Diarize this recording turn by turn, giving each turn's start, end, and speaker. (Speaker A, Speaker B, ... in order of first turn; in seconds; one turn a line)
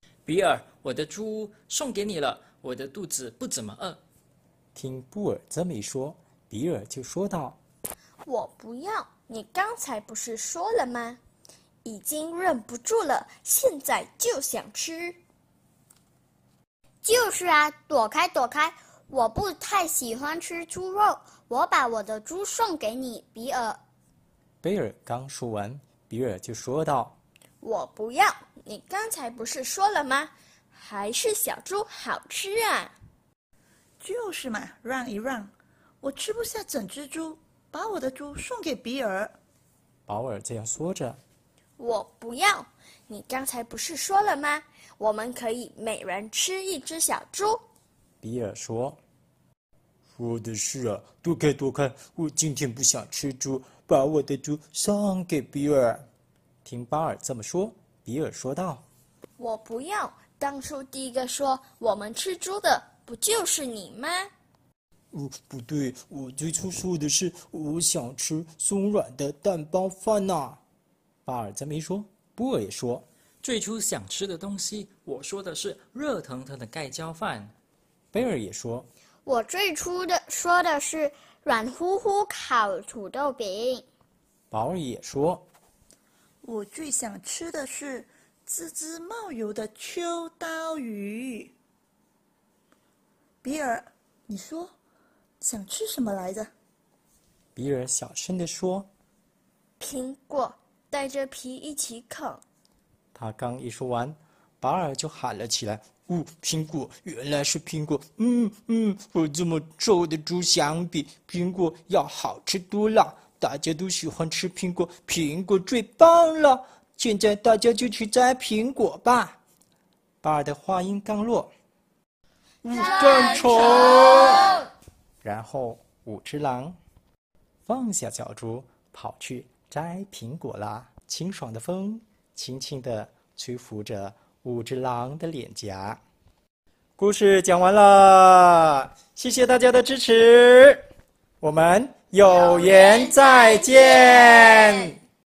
Speaker A: 0.3-4.0
Speaker B: 4.8-7.6
Speaker C: 8.2-11.2
Speaker C: 11.8-15.2
Speaker D: 17.0-23.8
Speaker B: 24.6-27.2
Speaker C: 27.6-32.9
Speaker E: 34.0-39.4
Speaker B: 40.1-41.2
Speaker C: 41.8-47.6
Speaker B: 48.2-49.0
Speaker B: 50.1-56.0
Speaker B: 56.6-58.8
Speaker C: 59.4-64.3
Speaker B: 65.1-70.6
Speaker B: 71.2-73.1
Speaker A: 73.4-77.5
Speaker B: 78.1-78.9
Speaker D: 79.3-83.9
Speaker B: 84.5-85.5
Speaker E: 86.4-91.5
Speaker E: 93.4-94.7
Speaker E: 95.4-96.5
Speaker B: 97.5-98.9
Speaker C: 99.8-102.4
Speaker B: 103.1-119.4
Speaker B: 120.2-121.5
Speaker B: 122.6-124.6
Speaker B: 125.2-126.8
Speaker B: 127.7-136.0
Speaker B: 137.0-140.8
Speaker B: 141.4-145.0